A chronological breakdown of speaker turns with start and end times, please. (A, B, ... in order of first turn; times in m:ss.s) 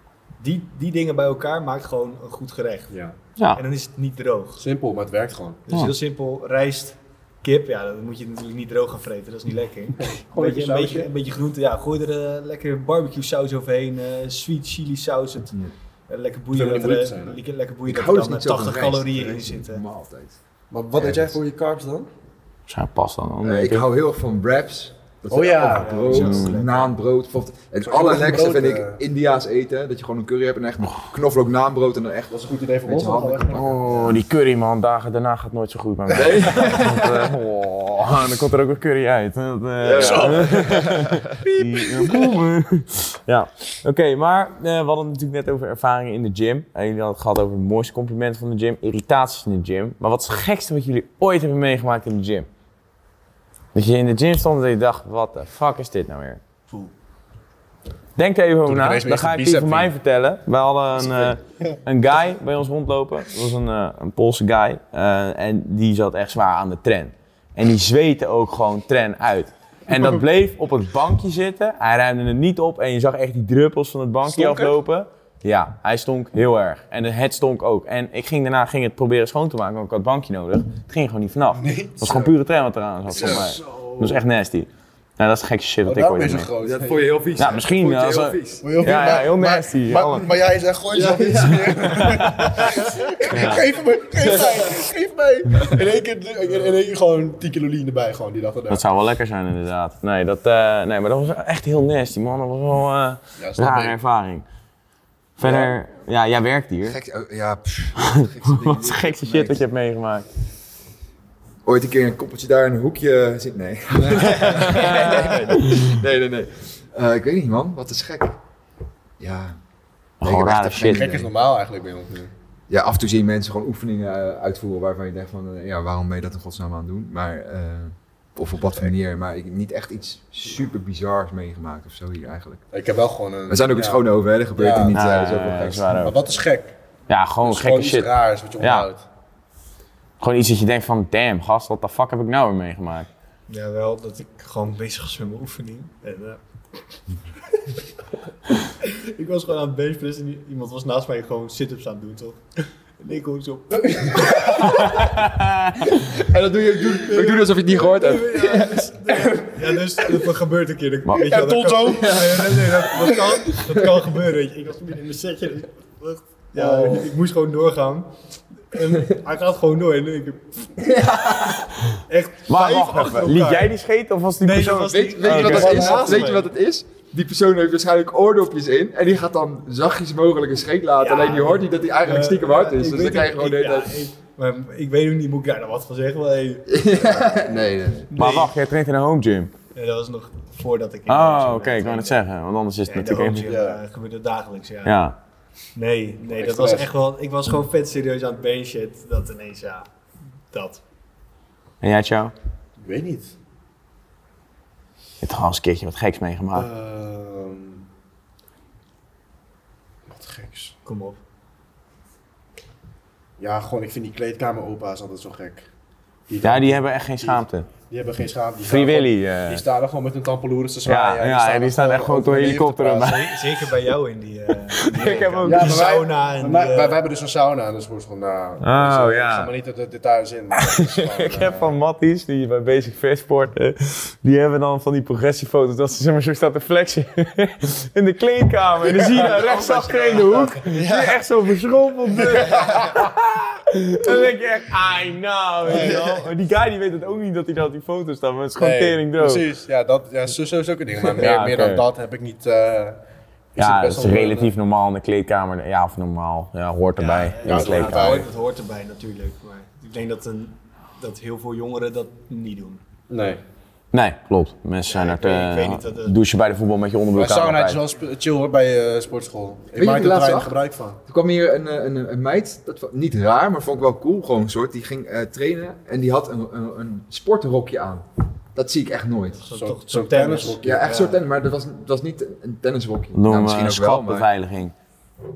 0:00.4-0:02.9 A
0:03.5-0:04.6 A
0:04.6-0:05.6 B
0:05.7-0:19.8 A
0:09.9-0:11.1 B
0:16.5-0:17.4 B
0:17.9-0:20.4 C
0:20.7-0:22.1 B
0:20.9-0:21.4 C
0:22.7-0:23.9 D
0:23.4-0:33.9 C
0:25.3-0:26.2 B
0:25.6-0:26.9 A
0:26.1-0:26.6 D
0:27.8-0:29.0 B
0:32.3-0:33.7 B
0:33.5-0:52.5 D
0:33.9-0:34.1 A
0:36.1-0:37.4 C
0:39.8-0:41.5 C
0:39.9-0:41.0 B
0:42.1-0:42.3 B
0:53.7-0:56.4 D
0:58.2-1:26.5 D
0:58.6-0:59.9 B
1:09.9-1:10.2 B
1:14.2-1:14.7 B
1:21.5-1:22.3 B
1:23.1-1:24.2 B
1:25.9-1:27.1 B
1:26.6-1:28.6 C
1:27.4-1:30.3 D
1:28.6-1:38.8 B
1:30.9-1:32.3 C
1:33.3-1:33.6 D
1:38.7-1:44.4 D
1:43.4-1:43.9 B
1:45.4-1:47.0 D
1:45.4-1:45.7 B
1:46.8-1:49.6 C
1:48.0-1:50.2 D
1:51.6-1:58.4 C
1:54.5-1:55.8 D
1:55.0-1:55.6 A
1:59.2-1:59.6 C
2:00.2-2:01.1 D
2:00.2-2:01.3 C
2:00.8-2:02.3 B
2:02.7-2:12.6 C
2:12.7-2:14.0 B
2:13.5-2:16.1 C
2:14.5-2:15.0 B
2:14.9-2:16.2 D
2:15.9-2:16.7 B
2:17.1-2:18.9 D
2:17.4-2:19.0 B
2:20.2-2:23.1 D
2:23.5-2:26.4 A
2:28.8-2:35.0 A
2:33.7-2:34.8 B
2:34.9-2:35.8 D
2:36.0-2:38.9 C
2:37.0-2:48.1 A
2:39.2-2:39.5 B
2:41.2-2:43.1 B
2:41.9-2:44.0 C
2:46.5-2:47.1 B
2:48.7-2:50.8 A
2:50.8-2:51.8 C
2:52.1-2:53.8 A
2:52.5-2:55.9 D
2:54.4-2:56.5 A
2:54.9-3:04.1 C
2:55.6-2:56.1 B
3:01.0-3:07.5 A
3:06.7-3:08.1 C
3:08.1-3:08.5 A
3:08.1-3:09.5 D
3:09.7-3:12.2 A
3:11.1-3:13.5 D
3:12.9-3:15.0 A
3:13.4-3:13.8 B
3:14.8-3:15.2 D
3:15.7-3:19.9 A
3:16.3-3:16.9 B
3:20.5-3:20.8 A
3:21.8-3:22.3 D
3:22.8-3:23.3 B
3:25.2-3:26.7 D
3:26.5-3:27.8 B
3:30.1-3:30.7 B
3:30.8-3:31.2 A
3:33.4-3:35.7 B
3:36.3-3:43.2 B
3:36.4-3:37.7 D
3:38.6-3:39.6 D
3:40.8-3:43.3 D
3:42.9-3:47.0 A
3:44.7-3:45.8 D
3:45.4-3:51.7 B
3:48.6-3:49.5 D
3:50.5-4:09.4 D
3:58.9-4:00.8 B
4:02.2-4:03.0 B
4:05.7-4:06.2 A
4:08.6-4:13.0 B
4:11.2-4:11.8 D
4:13.5-4:14.5 B
4:13.6-4:18.2 D
4:17.0-4:22.8 A
4:17.4-4:18.3 B
4:23.1-4:23.4 B
4:23.9-4:27.8 D
4:24.9-4:26.2 A
4:27.2-4:31.0 B
4:29.8-4:30.5 C
4:31.0-4:39.4 C
4:39.3-4:41.2 A
4:39.5-4:40.8 B
4:40.6-4:44.3 C
4:43.1-4:44.7 D